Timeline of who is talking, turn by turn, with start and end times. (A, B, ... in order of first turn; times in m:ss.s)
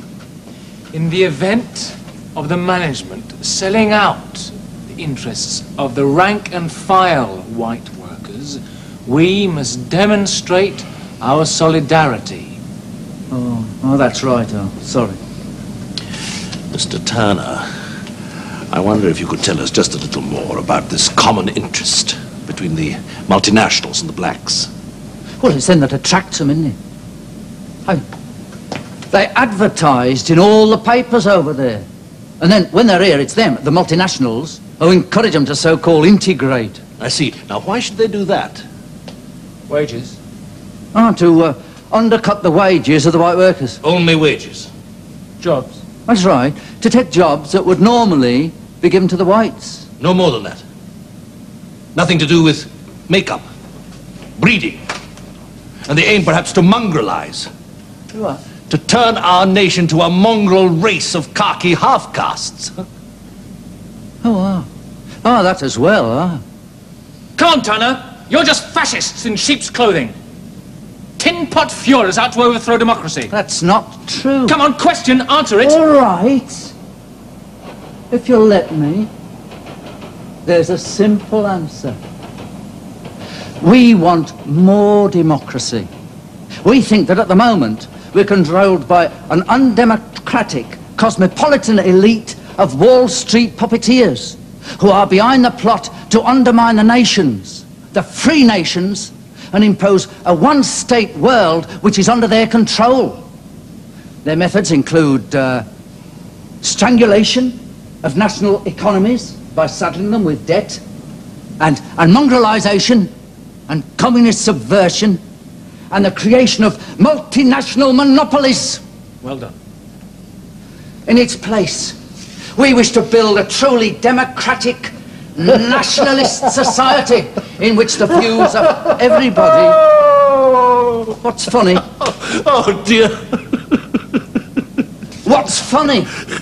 0:00.9-0:12.6 A
0:13.3-0:15.2 B
0:16.7-0:17.7 C
0:18.7-0:24.7 C
0:25.4-0:26.8 B
0:29.1-0:31.9 B
0:32.4-0:36.8 B
0:37.0-0:38.6 C
0:39.7-0:40.2 A
0:40.9-0:43.8 B
0:43.8-0:44.7 C
0:45.4-0:45.8 A
0:46.1-0:49.9 B
0:50.0-0:50.6 C
0:52.0-0:53.5 C
0:54.4-0:54.8 C
0:55.9-0:57.5 C
0:58.1-0:58.4 B
0:58.7-1:02.8 C
1:04.2-1:04.7 B
1:05.2-1:06.4 B
1:07.4-1:10.1 A
1:11.2-1:13.3 A
1:13.3-1:14.6 B
1:14.5-1:15.8 A
1:15.6-1:16.7 B
1:18.1-1:19.1 B
1:20.4-1:22.0 B
1:23.6-1:25.9 B
1:26.6-1:43.2 B
1:44.2-1:45.7 B
1:46.6-1:50.8 B
1:51.6-1:53.1 B
1:53.7-1:55.2 B
1:55.9-1:58.8 B
1:59.2-1:59.6 A
2:01.1-2:02.0 B
2:02.6-2:09.8 B
2:10.0-2:10.9 C
2:11.2-2:11.8 B
2:11.9-2:13.4 C
2:15.2-2:16.1 B